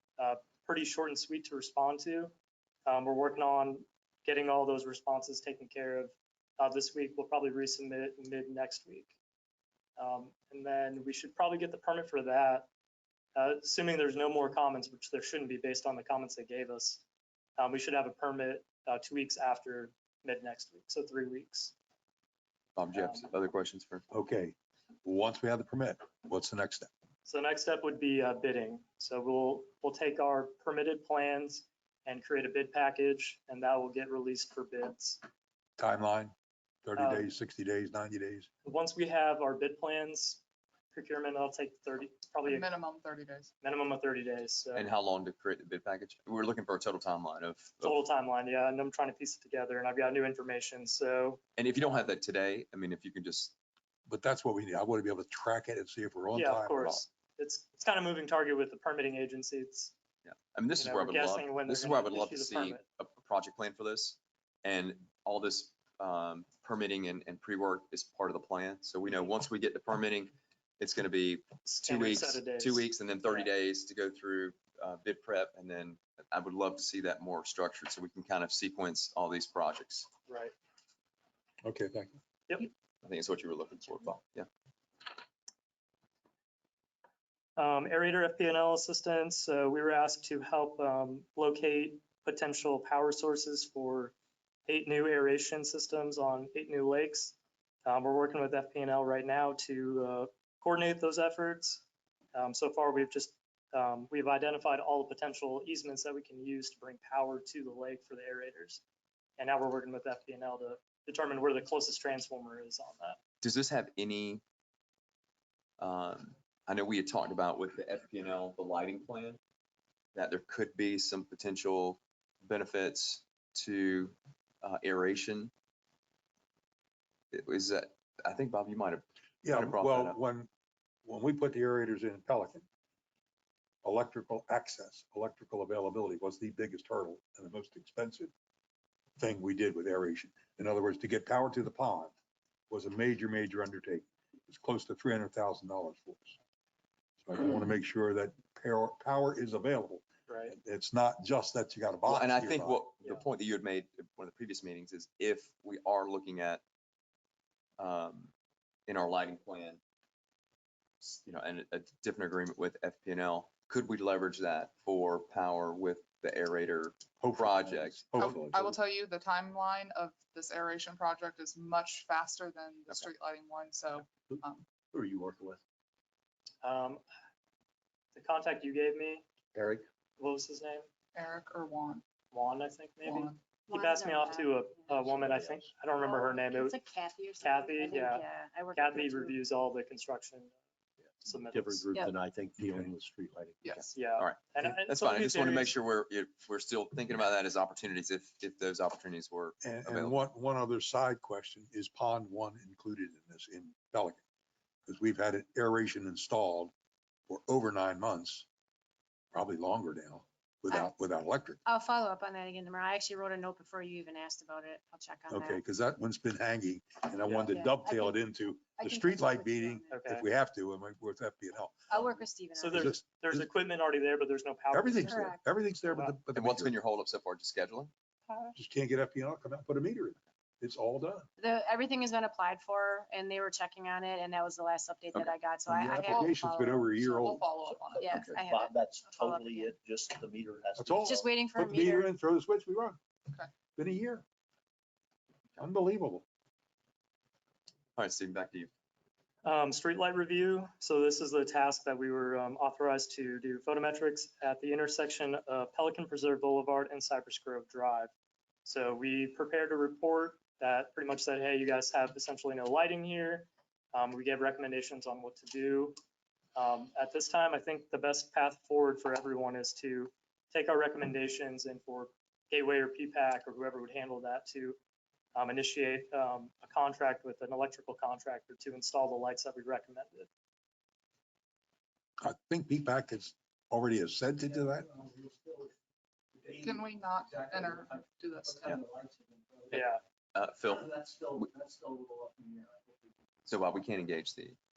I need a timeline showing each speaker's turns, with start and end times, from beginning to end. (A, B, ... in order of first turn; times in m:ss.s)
0:00.2-0:02.3 A
0:02.9-0:09.1 A
0:10.0-0:12.7 A
0:13.4-0:17.0 A
0:17.6-0:21.7 A
0:22.8-0:24.0 B
0:22.9-0:23.3 A
0:24.1-0:26.9 C
0:27.2-0:35.2 A
0:35.8-0:36.3 C
0:36.8-0:38.5 C
0:37.0-0:37.3 A
0:38.6-0:40.4 A
0:40.9-0:42.7 A
0:42.4-0:43.5 D
0:43.6-0:44.9 A
0:44.8-0:48.0 B
0:47.8-0:52.0 A
0:51.6-0:53.5 B
0:54.1-0:57.0 C
0:56.3-0:59.9 A
1:00.2-1:20.1 B
1:00.8-1:02.8 A
1:11.6-1:13.5 A
1:20.3-1:20.5 A
1:21.6-1:22.2 C
1:23.0-1:24.5 B
1:27.6-1:34.1 A
1:34.7-1:41.8 A
1:42.4-1:48.8 A
1:49.4-1:53.2 A
1:53.4-1:54.4 B
1:55.8-1:59.4 B
2:00.2-2:05.5 B
2:07.3-2:10.2 B
2:09.4-2:10.5 C
2:11.0-2:12.6 C
2:13.8-2:18.3 C
2:19.2-2:22.1 C
2:22.7-2:26.4 C
2:27.2-2:32.8 C
2:30.3-2:30.6 A
2:32.1-2:36.6 B
2:37.8-2:38.3 B
2:38.9-2:39.8 B
2:41.0-2:48.1 B
2:47.2-2:48.8 C
2:48.2-2:54.7 D
2:54.9-2:55.6 E
2:56.6-2:57.0 A
2:58.1-2:59.2 A
2:59.6-2:59.8 E
3:00.2-3:00.9 A
3:01.1-3:02.0 D
3:02.3-3:06.8 A
3:03.0-3:03.4 D
3:03.7-3:05.1 F
3:06.0-3:09.4 F
3:07.4-3:10.6 A
3:11.2-3:13.7 E
3:11.2-3:11.9 A
3:13.6-3:14.0 D
3:13.7-3:20.2 B
3:13.9-3:15.8 A
3:19.6-3:24.2 C
3:24.9-3:26.7 C
3:27.3-3:28.5 C
3:29.3-3:31.6 C
3:30.7-3:30.9 F
3:31.7-3:35.6 F
3:35.3-3:43.5 C
3:37.3-3:40.0 F
3:39.9-3:40.3 A
3:41.9-3:42.9 F
3:42.6-3:45.3 A
3:44.7-3:46.8 C
3:45.0-3:45.4 F
3:46.3-3:47.9 B
3:48.6-3:51.3 C
3:51.4-3:57.4 F
3:55.7-3:57.3 C
3:56.0-3:56.4 D
3:57.1-3:58.1 D
3:57.7-4:01.2 E
3:58.0-3:59.7 F
4:00.8-4:03.0 C
4:01.0-4:02.1 F
4:03.8-4:04.2 C
4:05.6-4:06.2 C
4:08.0-4:08.7 B
4:09.4-4:18.1 A
4:18.6-4:26.0 A
4:26.6-4:34.8 A
4:35.4-4:40.3 A
4:42.2-4:44.9 C
4:44.4-4:45.7 E
4:46.4-4:49.9 E
4:46.6-4:48.8 D
4:49.7-4:50.0 A
4:50.4-4:50.9 B
4:50.6-4:53.2 E
4:53.5-4:54.6 B